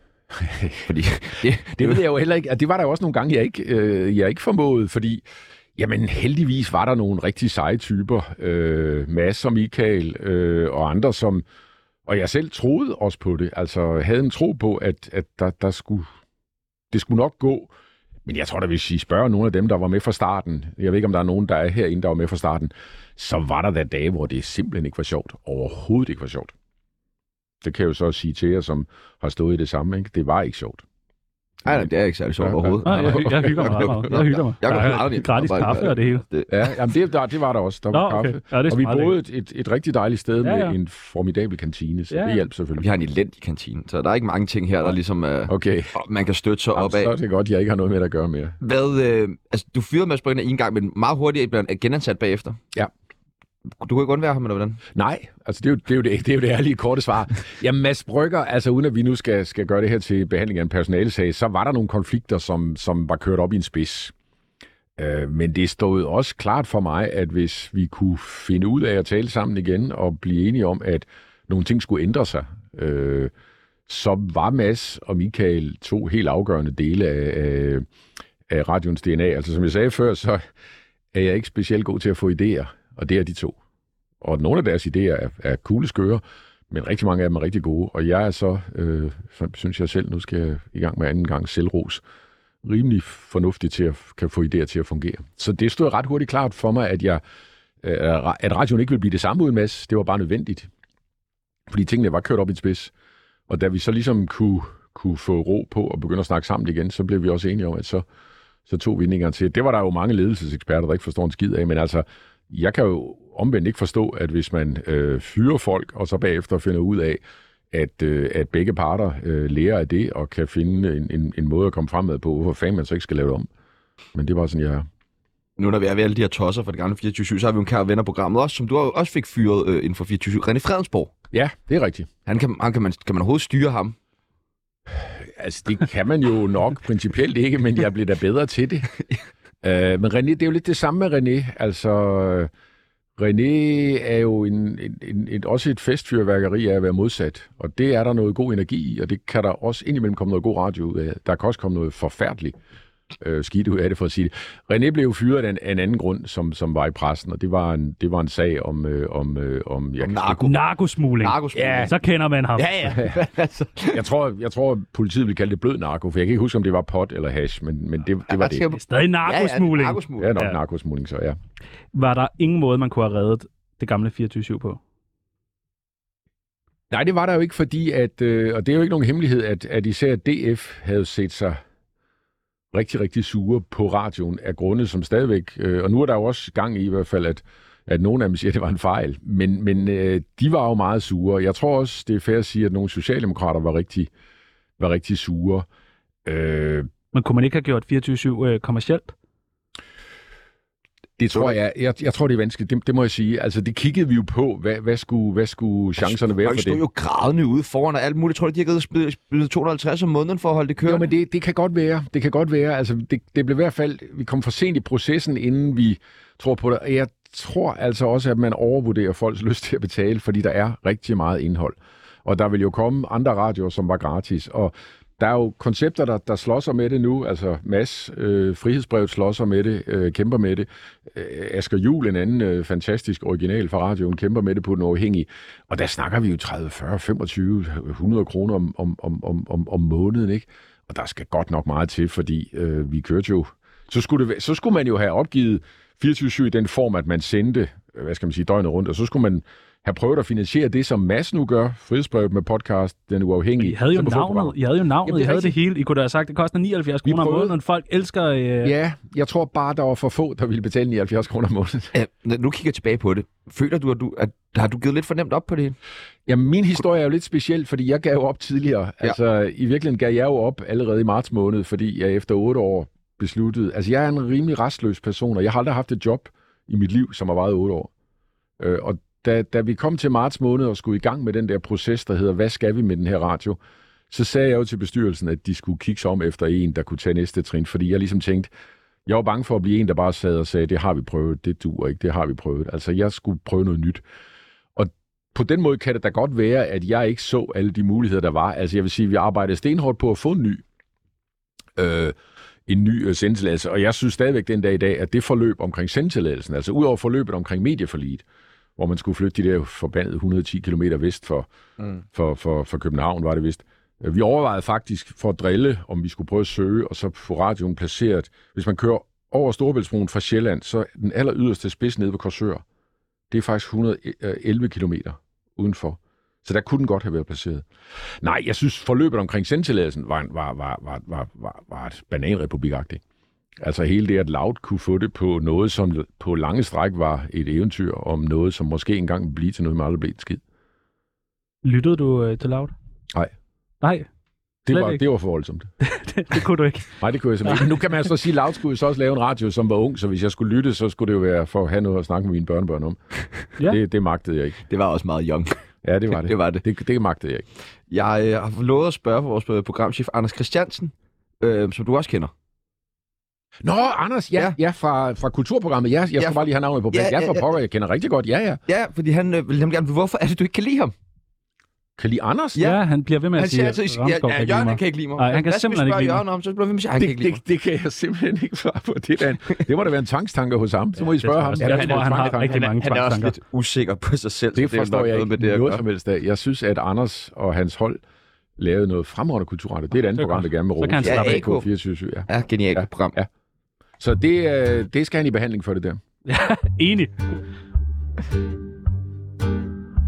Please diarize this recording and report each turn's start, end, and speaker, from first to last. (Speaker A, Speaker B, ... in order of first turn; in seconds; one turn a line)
Speaker A: 0.3-0.9
Speaker B: 0.9-2.0
Speaker A: 1.7-5.2
Speaker A: 5.8-11.4
Speaker A: 12.1-16.1
Speaker A: 16.9-17.7
Speaker A: 18.2-26.5
Speaker A: 27.6-30.8
Speaker B: 31.6-36.7
Speaker A: 31.7-34.0
Speaker C: 32.9-36.2
Speaker A: 36.5-42.9
Speaker C: 37.9-39.2
Speaker C: 40.4-40.8
Speaker C: 42.1-42.4
Speaker B: 42.8-47.1
Speaker A: 45.5-46.0
Speaker A: 46.8-48.6
Speaker B: 48.6-52.6
Speaker B: 53.8-54.8
Speaker A: 54.9-64.1
Speaker A: 65.0-73.3
Speaker A: 73.9-77.8
Speaker A: 78.5-80.4
Speaker A: 81.1-83.6
Speaker A: 84.2-92.0
Speaker A: 92.6-97.2
Speaker A: 97.8-100.7
Speaker A: 101.7-102.9
Speaker A: 103.5-108.0
Speaker A: 108.7-117.2
Speaker A: 117.7-123.5
Speaker A: 124.1-124.9
Speaker B: 125.6-131.1
Speaker A: 131.3-132.1
Speaker B: 132.3-134.0
Speaker A: 135.0-138.9
Speaker A: 139.6-142.5
Speaker A: 143.2-152.6
Speaker A: 153.2-160.5
Speaker B: 160.0-160.6
Speaker C: 160.4-162.8
Speaker B: 161.2-161.9
Speaker A: 161.5-161.9
Speaker B: 162.6-164.0
Speaker A: 162.9-163.2
Speaker A: 163.9-168.7
Speaker B: 168.3-170.3
Speaker C: 168.7-170.6
Speaker A: 170.2-171.4
Speaker C: 171.9-174.8
Speaker A: 176.9-181.6
Speaker A: 182.7-194.1
Speaker A: 194.8-195.7
Speaker A: 196.2-196.9
Speaker C: 197.1-199.2
Speaker A: 201.2-206.8
Speaker B: 206.0-211.1
Speaker A: 210.8-255.6
Speaker C: 253.6-258.7
Speaker A: 257.0-257.6
Speaker A: 258.6-261.9
Speaker B: 261.9-265.8
Speaker A: 266.3-277.9
Speaker A: 278.6-283.6
Speaker A: 284.1-288.5
Speaker A: 289.1-294.0
Speaker A: 294.8-300.6
Speaker A: 301.8-302.2
Speaker A: 302.7-308.2
Speaker A: 308.8-311.5
Speaker A: 312.1-322.6
Speaker A: 323.3-327.7
Speaker A: 328.2-333.0
Speaker A: 333.6-340.4
Speaker C: 341.6-342.7
Speaker C: 343.8-344.1
Speaker A: 344.7-345.7
Speaker C: 344.7-345.0
Speaker C: 345.8-347.8
Speaker A: 347.0-353.0
Speaker A: 353.6-354.6
Speaker B: 354.7-355.6
Speaker A: 355.8-357.5
Speaker B: 356.1-356.6
Speaker B: 357.9-362.3
Speaker A: 363.6-368.6
Speaker B: 366.2-367.5
Speaker B: 368.7-370.9
Speaker A: 372.0-372.7
Speaker C: 372.6-376.2
Speaker B: 373.4-377.4
Speaker A: 377.0-382.6
Speaker C: 381.2-383.4
Speaker B: 381.6-385.8
Speaker A: 384.6-388.0
Speaker A: 388.6-393.3
Speaker C: 390.2-391.5
Speaker B: 391.0-391.7
Speaker B: 392.3-393.2
Speaker A: 394.0-396.0
Speaker C: 396.3-397.3